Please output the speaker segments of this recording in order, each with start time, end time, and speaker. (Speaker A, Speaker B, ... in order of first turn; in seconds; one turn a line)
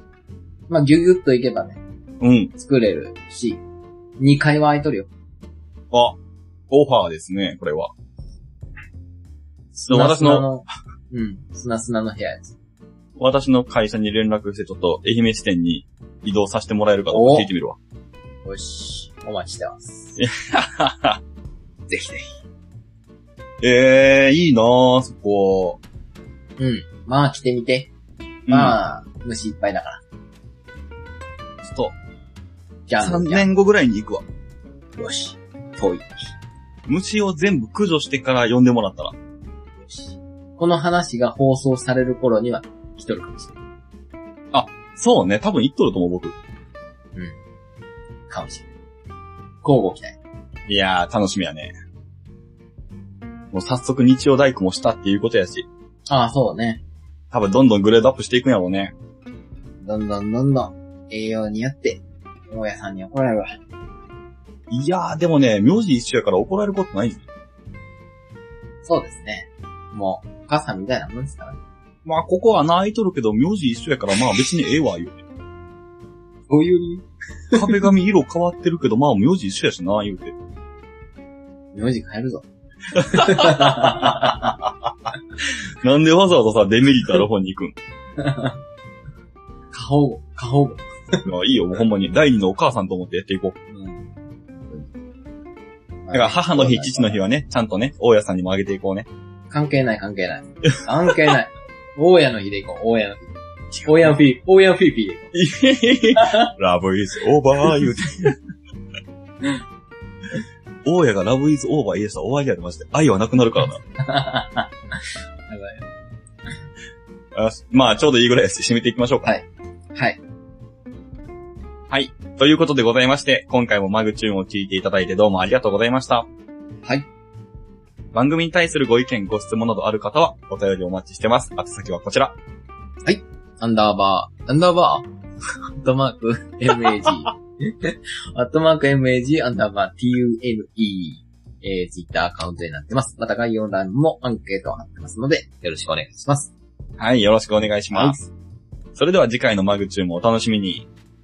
Speaker A: 0.7-1.8
Speaker B: 2.2-2.5
Speaker A: 2.5-3.6
Speaker A: 4.2-5.1
Speaker B: 5.9-6.2
Speaker B: 6.7-7.9
Speaker B: 9.7-10.4
Speaker A: 9.9-12.5
Speaker B: 13.2-17.8
Speaker A: 17.1-17.5
Speaker A: 18.4-20.1
Speaker B: 20.1-21.2
Speaker A: 21.9-22.3
Speaker B: 23.6-25.8
Speaker A: 26.6-27.9
Speaker B: 28.5-28.8
Speaker A: 28.5-30.0
Speaker B: 31.6-31.9
Speaker A: 32.9-33.5
Speaker B: 33.0-34.2
Speaker A: 35.0-36.1
Speaker B: 36.9-39.1
Speaker A: 39.8-43.5
Speaker B: 44.5-46.4
Speaker A: 48.3-48.7
Speaker A: 49.6-50.1
Speaker B: 50.7-51.7
Speaker B: 53.5-55.6
Speaker A: 56.1-56.8
Speaker B: 57.3-58.9
Speaker A: 59.8-63.5
Speaker B: 64.7-67.2
Speaker A: 68.8-71.6
Speaker B: 72.0-75.2
Speaker A: 76.5-77.8
Speaker B: 77.5-80.3
Speaker A: 81.7-82.4
Speaker B: 83.0-84.9
Speaker A: 83.0-84.5
Speaker B: 85.4-87.7
Speaker A: 88.2-88.6
Speaker A: 89.7-91.2
Speaker B: 91.2-93.5
Speaker A: 93.7-94.9
Speaker A: 96.0-97.2
Speaker B: 96.1-99.1
Speaker A: 99.5-105.3
Speaker B: 103.7-104.1
Speaker B: 105.3-108.3
Speaker A: 106.1-106.5
Speaker B: 110.8-113.8
Speaker A: 114.0-115.9
Speaker B: 117.3-119.3
Speaker A: 119.2-120.2
Speaker B: 121.9-126.3
Speaker B: 128.1-132.3
Speaker A: 133.0-135.1
Speaker A: 135.8-146.5
Speaker B: 147.0-148.2
Speaker A: 147.9-148.3
Speaker B: 148.9-150.9